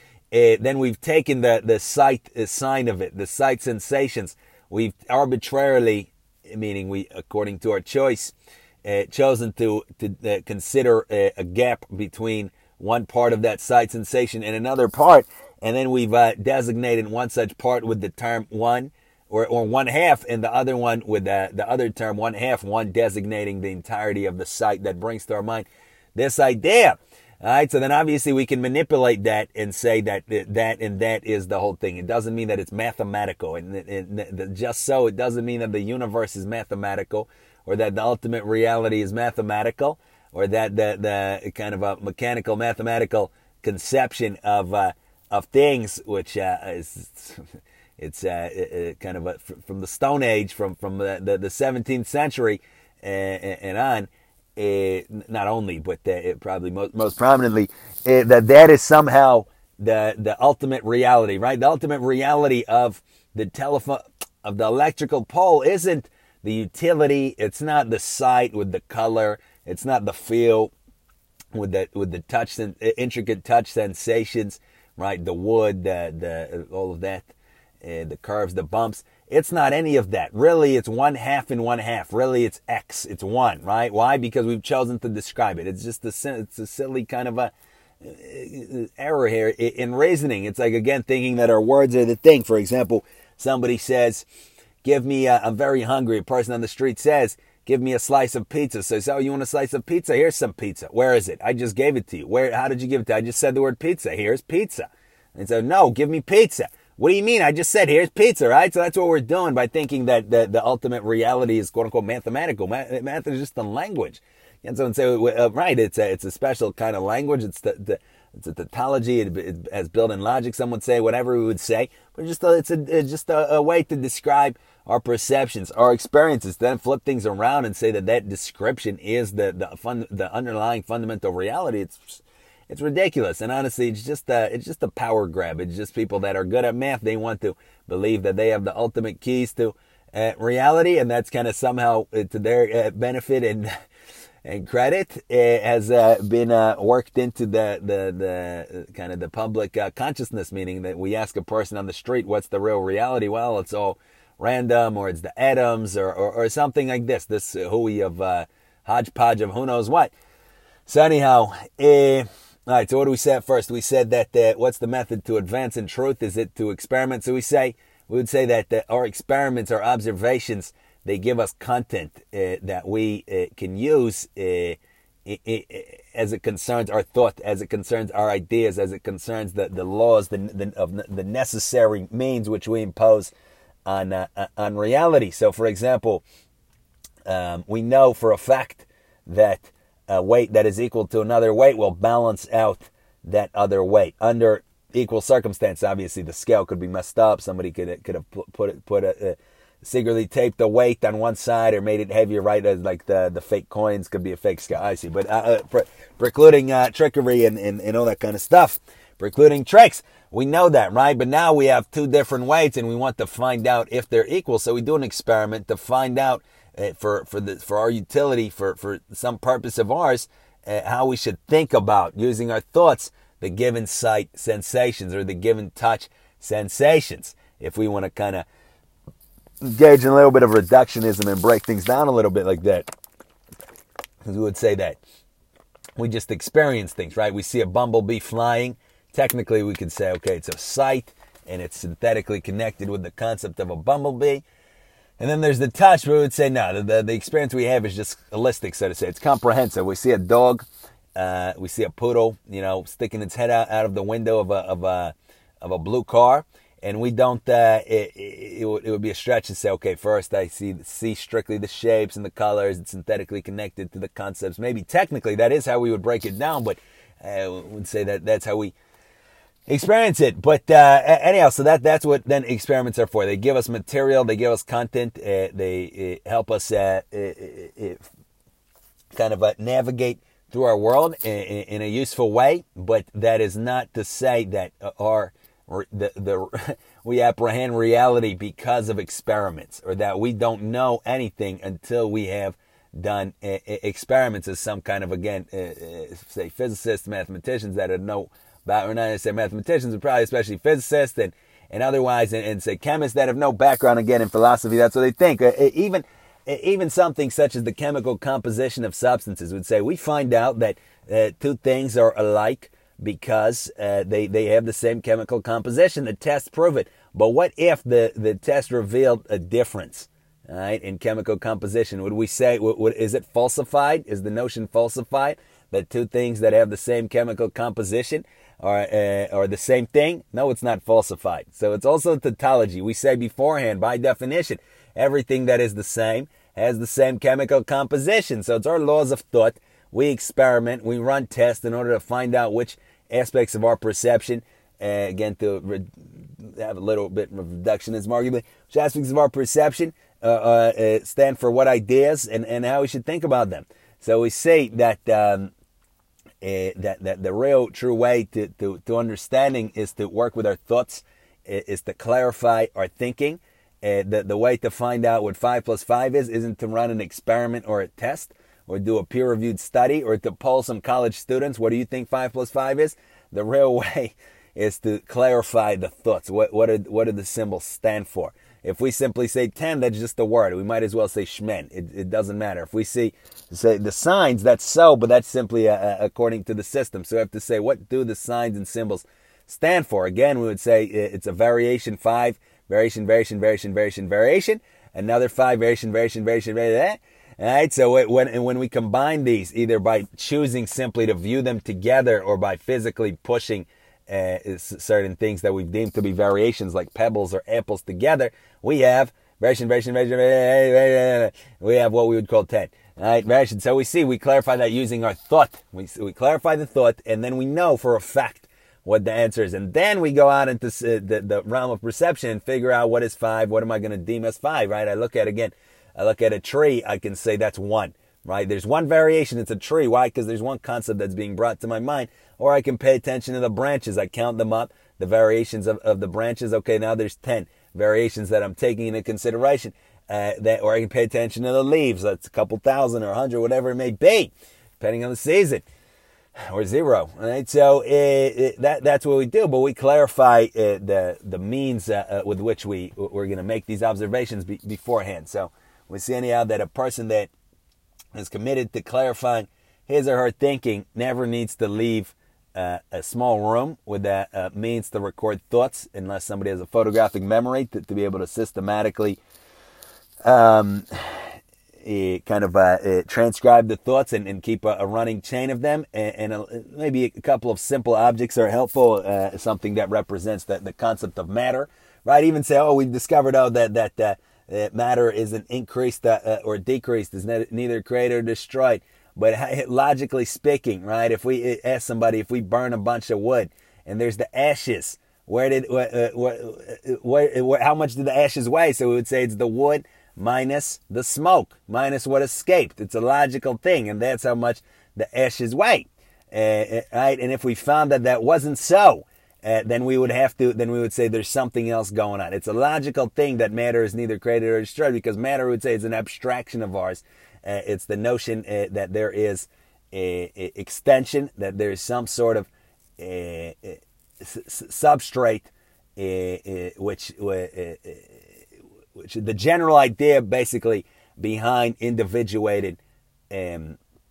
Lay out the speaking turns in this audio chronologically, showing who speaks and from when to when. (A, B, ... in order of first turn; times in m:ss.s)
0:00.3-0:47.4 A
0:48.0-1:10.7 A
1:11.5-1:17.3 A
1:17.8-1:34.2 A
1:34.8-2:23.7 A
2:24.4-2:40.1 A
2:40.8-3:03.3 A
3:03.8-3:06.2 A
3:07.2-3:48.4 A
3:49.6-3:52.9 A
3:54.2-3:55.0 A
3:56.0-4:04.4 A
4:05.2-4:28.7 A
4:29.7-4:38.1 A
4:39.1-5:55.5 A
5:56.4-7:25.6 A
7:26.5-7:37.3 A
7:38.1-7:49.2 A
7:50.2-8:48.2 A
8:49.0-8:52.8 A
8:53.3-8:53.8 A